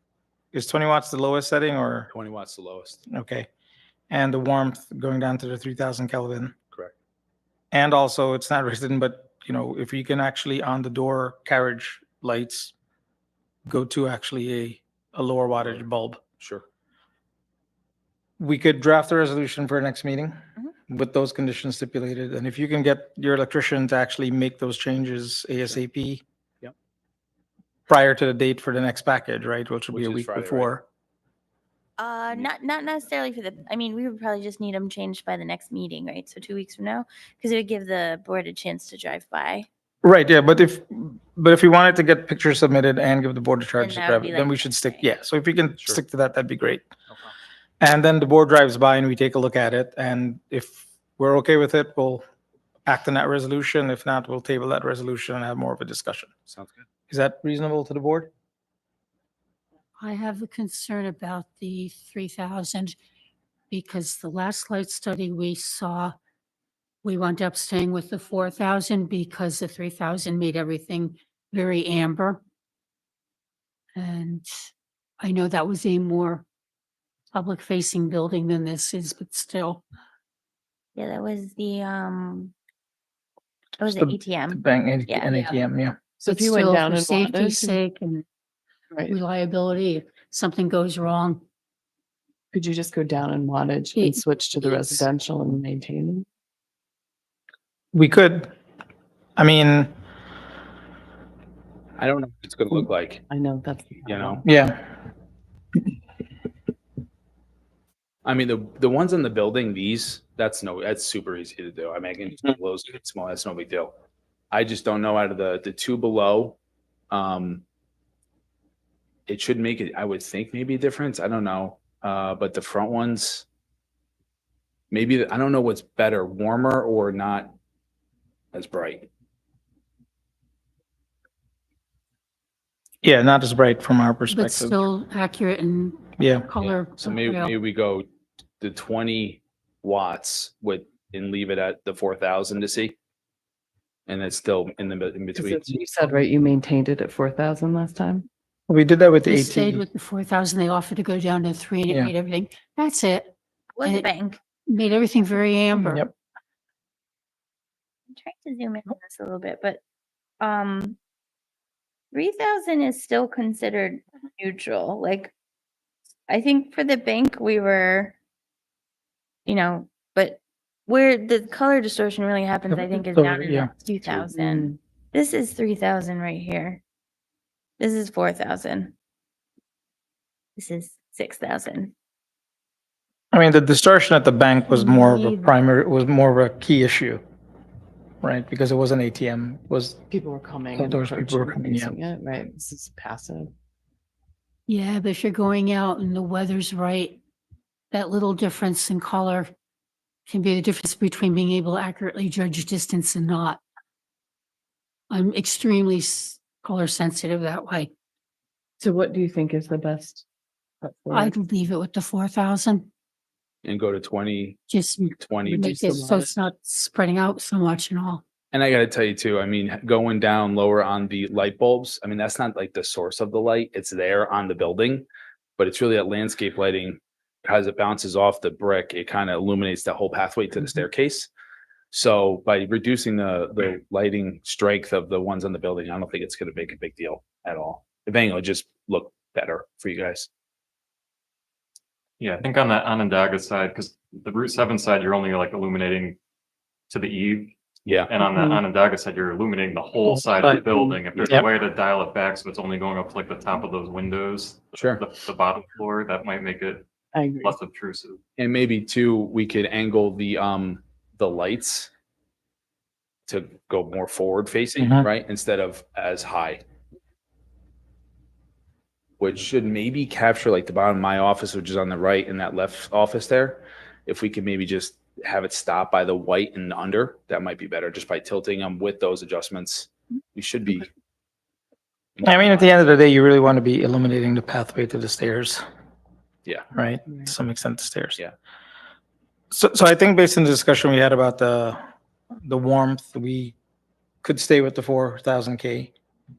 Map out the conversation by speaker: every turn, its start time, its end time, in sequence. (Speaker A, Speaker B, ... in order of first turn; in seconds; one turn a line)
Speaker A: 0.5-2.1
Speaker B: 2.1-3.0
Speaker A: 3.1-3.5
Speaker A: 4.1-6.5
Speaker A: 7.7-12.7
Speaker A: 13.7-16.2
Speaker B: 16.4-16.6
Speaker A: 18.4-20.4
Speaker A: 20.9-26.2
Speaker A: 27.9-30.8
Speaker B: 29.9-30.7
Speaker C: 32.0-39.7
Speaker A: 40.0-46.9
Speaker C: 43.8-45.1
Speaker A: 47.8-52.2
Speaker A: 52.9-56.3
Speaker B: 56.5-56.8
Speaker A: 57.1-58.3
Speaker D: 60.0-63.0
Speaker D: 63.7-66.1
Speaker D: 67.0-72.4
Speaker D: 73.9-74.5
Speaker D: 75.2-76.4
Speaker D: 77.3-79.8
Speaker C: 80.9-82.5
Speaker C: 83.8-85.6
Speaker A: 83.9-86.0
Speaker E: 86.2-87.8
Speaker D: 86.2-88.2
Speaker D: 89.0-91.4
Speaker E: 92.5-96.2
Speaker D: 93.9-95.0
Speaker A: 97.9-98.5
Speaker A: 99.4-99.9
Speaker B: 102.0-103.2
Speaker E: 103.3-104.4
Speaker B: 104.0-104.4
Speaker A: 104.4-104.8
Speaker B: 108.2-113.9
Speaker B: 114.5-116.6
Speaker B: 117.1-117.6
Speaker B: 119.3-123.4
Speaker B: 124.9-127.5
Speaker B: 128.5-129.1
Speaker A: 133.0-134.8
Speaker D: 134.3-137.5
Speaker A: 136.2-136.5
Speaker B: 136.6-138.1
Speaker B: 138.6-142.9
Speaker B: 144.1-145.8
Speaker E: 145.4-148.3
Speaker A: 148.7-149.8
Speaker D: 149.2-153.3
Speaker C: 153.7-154.4
Speaker D: 154.7-156.0
Speaker A: 155.8-156.1
Speaker C: 158.1-159.8
Speaker C: 160.4-161.0
Speaker C: 162.1-165.3
Speaker C: 166.3-168.1
Speaker C: 169.4-176.8
Speaker A: 172.7-173.7
Speaker E: 174.2-174.8
Speaker C: 177.8-178.9
Speaker C: 180.6-181.9
Speaker A: 183.3-187.2
Speaker D: 184.7-185.5
Speaker A: 188.2-190.0
Speaker E: 190.1-193.5
Speaker A: 190.7-191.9
Speaker D: 194.7-197.2
Speaker D: 197.9-199.5
Speaker D: 200.3-203.6
Speaker D: 205.1-207.9
Speaker E: 208.8-210.2
Speaker E: 210.8-211.3
Speaker D: 211.1-212.9
Speaker B: 213.6-214.6
Speaker D: 214.7-218.2
Speaker B: 215.2-215.8
Speaker E: 215.4-216.3
Speaker B: 218.5-225.1
Speaker B: 225.6-231.3
Speaker B: 231.9-240.3
Speaker F: 242.2-246.2
Speaker F: 246.9-247.5
Speaker B: 247.8-248.1
Speaker F: 248.1-258.2
Speaker E: 248.3-248.6
Speaker A: 250.1-250.6
Speaker B: 251.1-251.4
Speaker B: 254.7-255.0
Speaker E: 257.1-257.5
Speaker B: 258.4-261.9
Speaker B: 263.3-266.6
Speaker B: 269.2-280.9
Speaker B: 282.1-282.7
Speaker A: 282.2-285.6
Speaker A: 286.7-288.2
Speaker A: 289.5-291.8
Speaker A: 292.4-293.5
Speaker A: 294.2-295.9